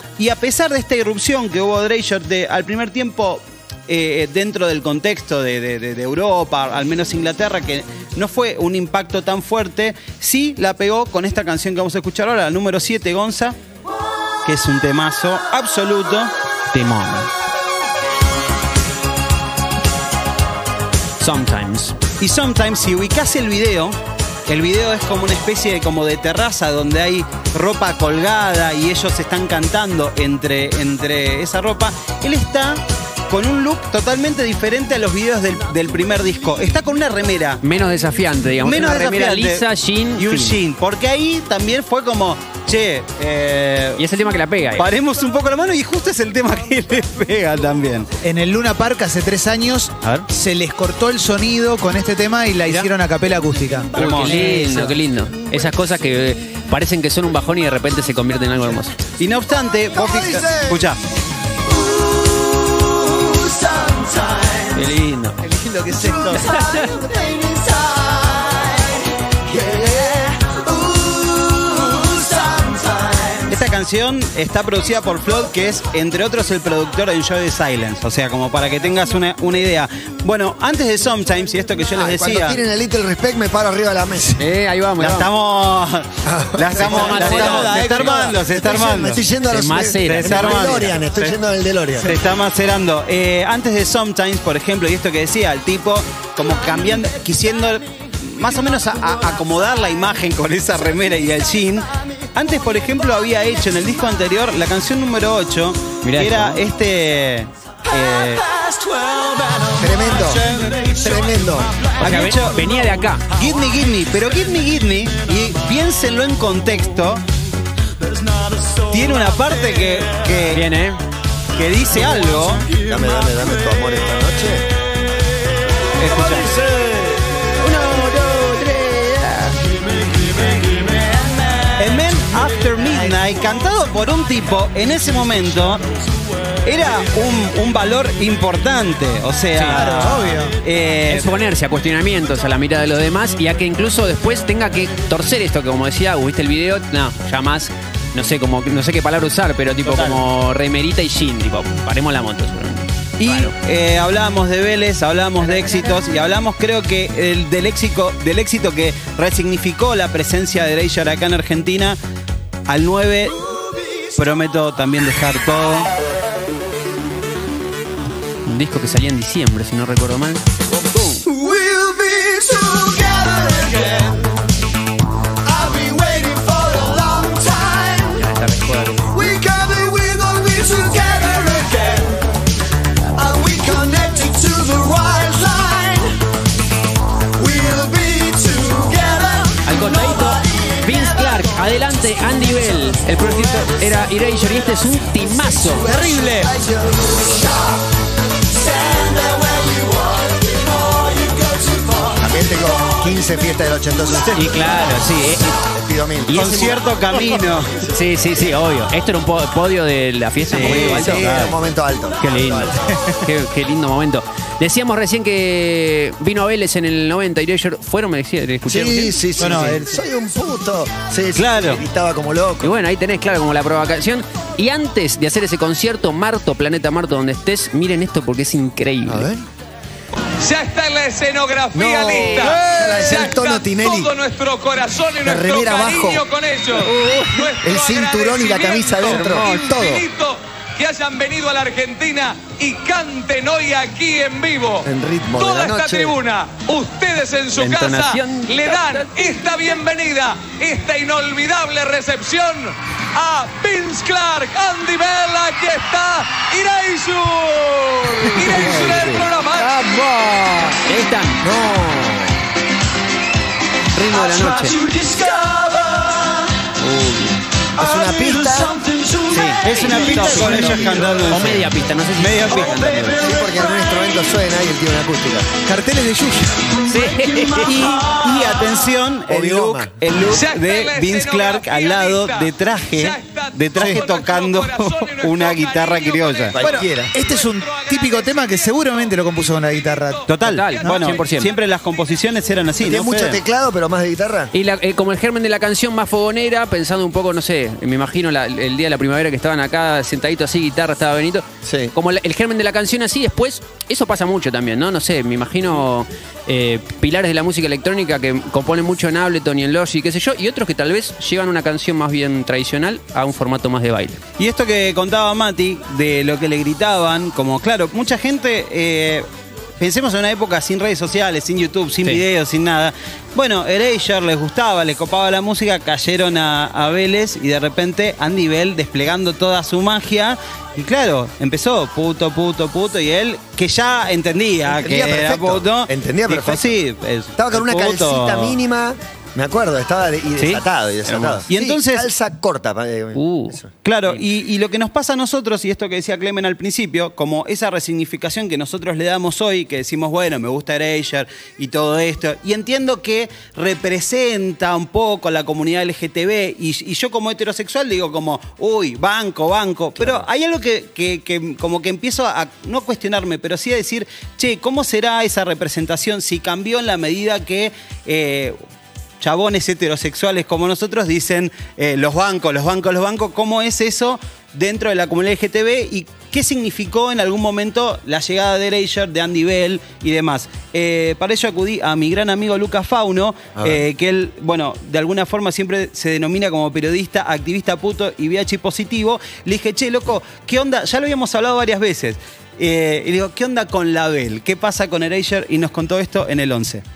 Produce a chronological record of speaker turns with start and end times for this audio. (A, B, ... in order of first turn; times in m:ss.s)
0:00.2-0:13.6 A
0:14.4-0:16.3 A
0:16.7-0:17.3 B
0:21.2-0:22.0 B
0:22.2-0:37.6 A
0:37.6-0:40.6 B
0:38.6-0:39.6 A
0:40.2-0:44.0 A
0:44.0-0:44.9 B
0:44.8-0:48.1 A
0:48.2-0:53.9 C
0:53.9-0:54.9 A
0:54.0-0:58.9 B
0:59.2-1:01.0 A
0:59.9-1:00.9 D
1:01.6-1:04.8 D
1:04.7-1:05.4 B
1:05.4-1:06.4 C
1:05.9-1:13.6 D
1:06.5-1:06.9 B
1:13.5-1:22.6 A
1:21.9-1:24.4 D
1:24.4-1:25.3 B
1:25.0-1:29.2 A
1:26.2-1:32.2 D
1:26.8-1:27.7 B
1:26.9-1:28.4 C
1:29.5-1:30.9 B
1:30.0-1:31.4 A
1:32.0-1:48.4 A
1:46.0-1:46.6 B
1:49.6-1:51.7 D
1:52.0-1:53.2 B
1:52.0-1:57.2 A
1:58.9-2:00.6 A
2:00.5-2:01.0 B
2:01.5-2:02.7 A
2:02.8-2:04.7 D
2:06.0-2:06.5 A
2:06.4-2:07.2 D
2:07.6-2:09.6 B
2:11.8-2:15.8 A
2:16.6-2:21.3 A
2:19.5-2:19.8 B
2:19.7-2:20.6 C
2:21.1-2:33.5 B
2:29.8-2:30.2 A
2:33.2-2:42.0 A
2:42.7-2:43.4 A
2:44.2-2:45.9 A
2:48.4-2:50.4 B
2:50.7-2:54.3 D
2:55.4-2:58.2 D
2:58.1-2:59.1 B
2:59.1-3:02.3 D
3:03.1-3:06.2 D
3:07.4-3:11.4 D
3:09.6-3:16.3 B
3:15.6-3:17.8 D
3:18.6-3:25.0 D
3:24.3-3:25.6 B
3:25.6-3:26.8 D
3:26.3-3:26.8 B
3:26.3-3:27.8 A
3:27.9-3:31.3 B
3:30.5-3:31.6 A
3:30.5-3:32.9 D
3:32.2-3:39.2 B
3:38.6-3:42.7 D
3:39.4-3:40.0 C
3:41.4-3:41.8 A
3:42.6-3:49.3 B
3:49.0-3:49.4 D
3:50.4-4:19.7 E
3:51.7-3:54.1 D
3:55.2-3:56.2 D
3:56.8-3:57.3 B
3:57.6-4:00.0 D
3:59.1-3:59.6 B
4:04.8-4:06.2 D
4:07.6-4:09.2 B
4:18.4-4:19.2 B
4:18.4-4:19.1 D
4:19.8-4:21.4 B
4:21.4-4:22.4 D
4:23.9-4:24.8 B
4:24.8-4:26.3 D
4:26.8-4:27.4 B
4:27.7-4:29.3 D
4:29.3-4:31.7 A
4:29.6-4:33.2 B
4:30.2-4:31.3 D
4:32.2-4:33.0 A
4:33.1-4:35.5 D
4:35.6-4:36.8 C
4:36.9-4:37.8 B
4:37.6-4:46.6 A
4:39.3-4:39.9 D
4:40.3-4:49.2 E
4:43.8-4:44.0 C
4:46.5-4:47.1 D
4:46.6-4:50.2 C
4:50.0-4:51.2 E
4:50.3-4:53.4 A
4:50.4-4:51.5 B
4:52.8-4:54.5 D
4:54.5-5:14.2 B
5:01.6-5:01.9 D
5:14.4-5:19.2 A
5:19.8-5:38.6 A
5:34.7-5:36.7 D
5:37.4-5:43.7 D
5:41.1-5:41.4 B
5:41.5-5:42.1 A
5:43.1-5:44.2 B
5:43.8-6:08.6 A
6:00.0-6:00.3 D
6:09.2-6:36.8 A